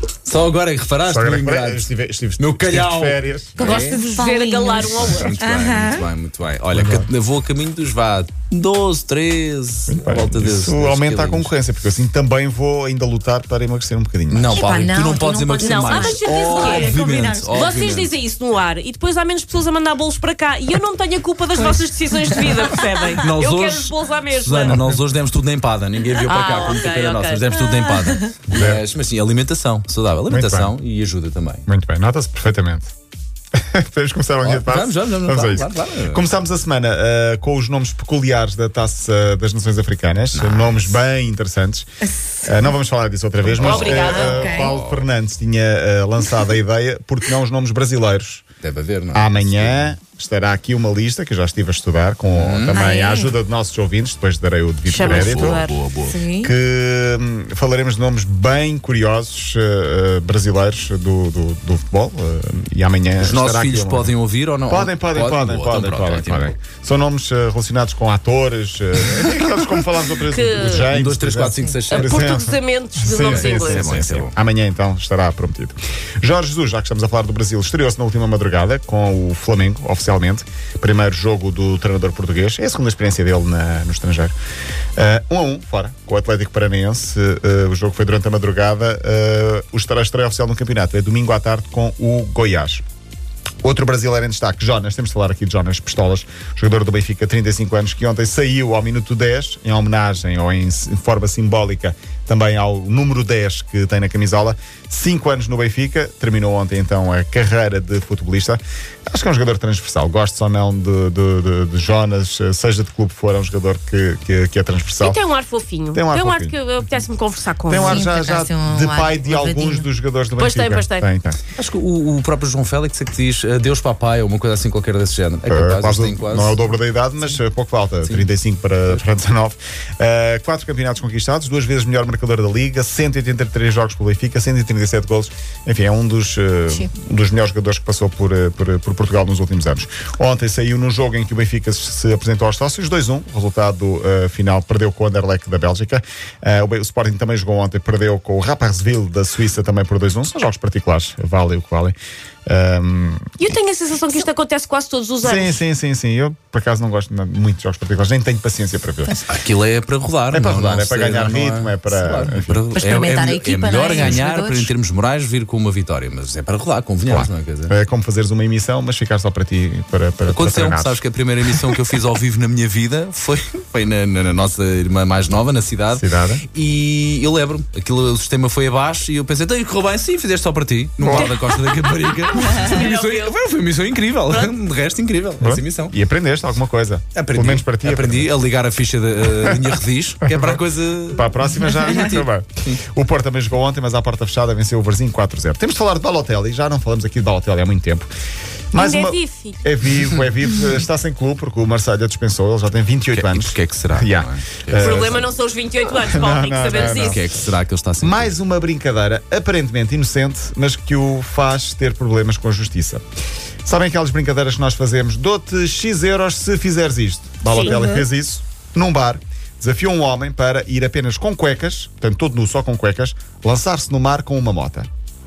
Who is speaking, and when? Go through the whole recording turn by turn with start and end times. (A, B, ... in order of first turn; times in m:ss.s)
0:00.2-0:04.0 A
0:01.1-0:03.8 B
0:03.6-0:05.4 C
0:03.7-0:06.1 D
0:04.8-0:11.5 A
0:06.7-0:07.1 B
0:09.9-0:14.7 B
0:14.3-0:18.1 A
0:14.5-0:17.8 D
0:15.6-0:24.8 C
0:23.2-0:31.7 A
0:24.7-0:25.0 B
0:26.2-0:27.7 C
0:28.5-0:28.8 B
0:30.3-0:30.7 B
0:31.7-0:32.9 B
0:33.6-0:41.9 B
0:34.4-0:36.2 A
0:40.3-0:41.0 A
0:42.4-0:48.4 B
0:43.6-0:44.5 C
0:43.6-0:45.1 A
0:43.7-0:44.8 D
0:48.6-0:50.0 A
0:49.1-0:55.6 B
0:52.3-0:52.8 A
0:52.7-0:53.4 D
0:54.9-0:55.8 C
0:55.0-0:56.2 A
0:56.1-0:56.5 D
0:56.4-1:04.1 B
1:03.2-1:06.6 A
1:04.7-1:24.3 B
1:10.3-1:10.9 C
1:10.7-1:12.2 A
1:11.9-1:14.0 C
1:13.2-1:14.3 A
1:25.0-1:32.8 B
1:33.6-1:55.2 B
1:55.0-1:58.1 C
1:55.9-1:56.6 B
1:57.7-2:01.4 B
1:57.8-1:59.9 D
2:00.4-2:01.0 C
2:01.6-2:06.7 A
2:05.5-2:32.0 B
2:08.0-2:08.3 A
2:32.5-2:33.3 B
2:33.4-2:35.6 C
2:35.2-2:39.2 B
2:39.2-2:47.7 A
2:40.3-2:42.6 B
2:42.7-2:44.7 D
2:47.1-2:51.0 B
2:50.3-3:06.0 A
2:56.0-2:56.4 B
3:01.0-3:01.3 B
3:01.0-3:03.4 C
3:04.3-3:04.5 C
3:05.4-3:08.3 B
3:07.1-3:12.8 A
3:10.3-3:18.1 B
3:18.7-3:25.3 B
3:18.8-3:19.7 C
3:23.1-3:25.1 A
3:24.8-3:27.2 C
3:25.9-3:27.3 B
3:26.7-3:28.4 A
3:28.0-3:33.0 B
3:33.6-3:44.9 B
3:37.5-3:38.0 C